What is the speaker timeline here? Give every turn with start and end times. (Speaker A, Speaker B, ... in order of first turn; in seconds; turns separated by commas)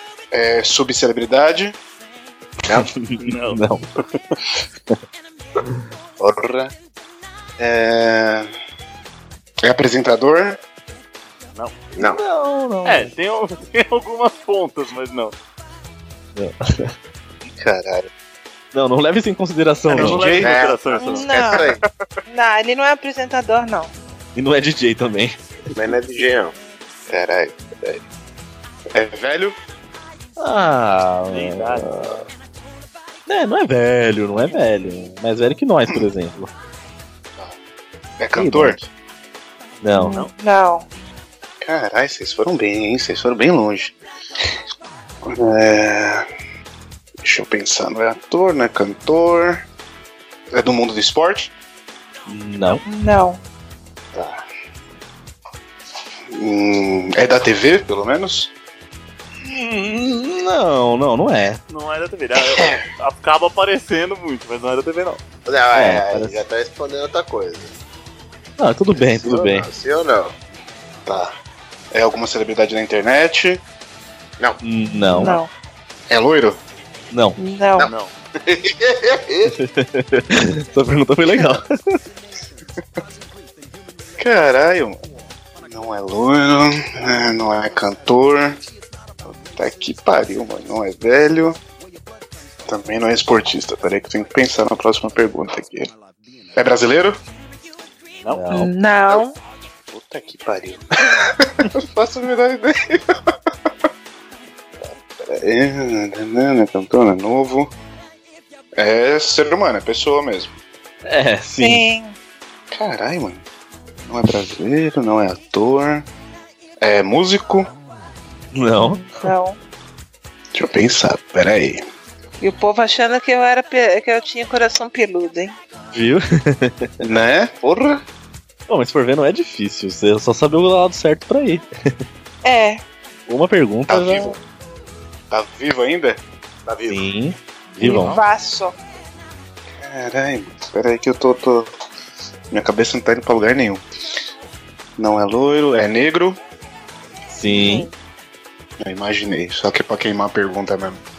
Speaker A: 0.3-1.8, Speaker B: 2.7-3.8, Speaker C: 3.2-3.6, Speaker A: 6.2-6.7, Speaker A: 7.6-8.5, Speaker A: 9.6-10.6, Speaker C: 11.5-11.8, Speaker D: 11.9-12.2, Speaker B: 12.0-13.1, Speaker C: 12.8-15.3, Speaker B: 16.4-16.9, Speaker A: 17.4-18.1, Speaker B: 18.7-20.3, Speaker C: 19.9-21.2, Speaker A: 19.9-21.9, Speaker D: 20.4-21.8, Speaker E: 21.0-21.7, Speaker E: 22.3-23.9, Speaker B: 24.4-25.4, Speaker D: 25.7-26.5, Speaker A: 27.1-28.0, Speaker A: 28.9-29.6, Speaker B: 30.4-32.2, Speaker C: 31.3-32.3, Speaker B: 33.3-36.5, Speaker A: 38.2-38.8, Speaker B: 38.3-38.9, Speaker B: 39.8-40.2, Speaker E: 39.9-40.9, Speaker A: 41.6-43.9, Speaker A: 45.2-46.3, Speaker A: 47.2-49.6, Speaker A: 50.5-51.5, Speaker B: 52.3-52.8, Speaker E: 52.9-53.4, Speaker A: 54.1-54.4, Speaker A: 56.3-58.5, Speaker B: 59.4-61.6, Speaker C: 61.7-65.2, Speaker D: 65.5-67.7, Speaker B: 65.7-66.4, Speaker B: 68.6-69.7, Speaker D: 69.0-70.3, Speaker A: 71.0-71.3, Speaker A: 71.9-73.6, Speaker B: 74.6-75.3, Speaker E: 75.1-75.5, Speaker A: 76.1-76.6, Speaker B: 77.1-77.4, Speaker E: 77.4-77.9, Speaker C: 77.8-78.1, Speaker D: 78.4-79.6, Speaker B: 79.5-81.7, Speaker A: 84.2-85.0, Speaker A: 85.6-88.6, Speaker A: 89.2-91.6, Speaker A: 92.7-95.9, Speaker A: 96.5-97.2, Speaker B: 98.3-98.7, Speaker E: 98.5-99.3, Speaker A: 99.9-103.3, Speaker A: 104.8-107.7, Speaker A: 108.8-110.5, Speaker B: 111.0-111.8, Speaker E: 111.6-112.2, Speaker A: 112.7-113.4, Speaker A: 114.1-116.1, Speaker A: 116.8-117.7, Speaker B: 118.5-119.1, Speaker E: 118.8-119.6, Speaker A: 120.5-121.9, Speaker E: 122.4-125.5, Speaker B: 125.9-127.0, Speaker A: 127.0-128.0, Speaker B: 128.7-131.9, Speaker E: 132.4-132.8, Speaker B: 133.3-134.4, Speaker A: 133.9-134.4, Speaker A: 135.3-136.2, Speaker D: 136.7-137.0, Speaker B: 136.9-138.2, Speaker E: 137.8-138.8, Speaker A: 139.8-141.7, Speaker A: 142.5-143.8, Speaker A: 145.0-146.4, Speaker B: 147.3-147.9, Speaker E: 147.5-147.9, Speaker A: 148.8-151.0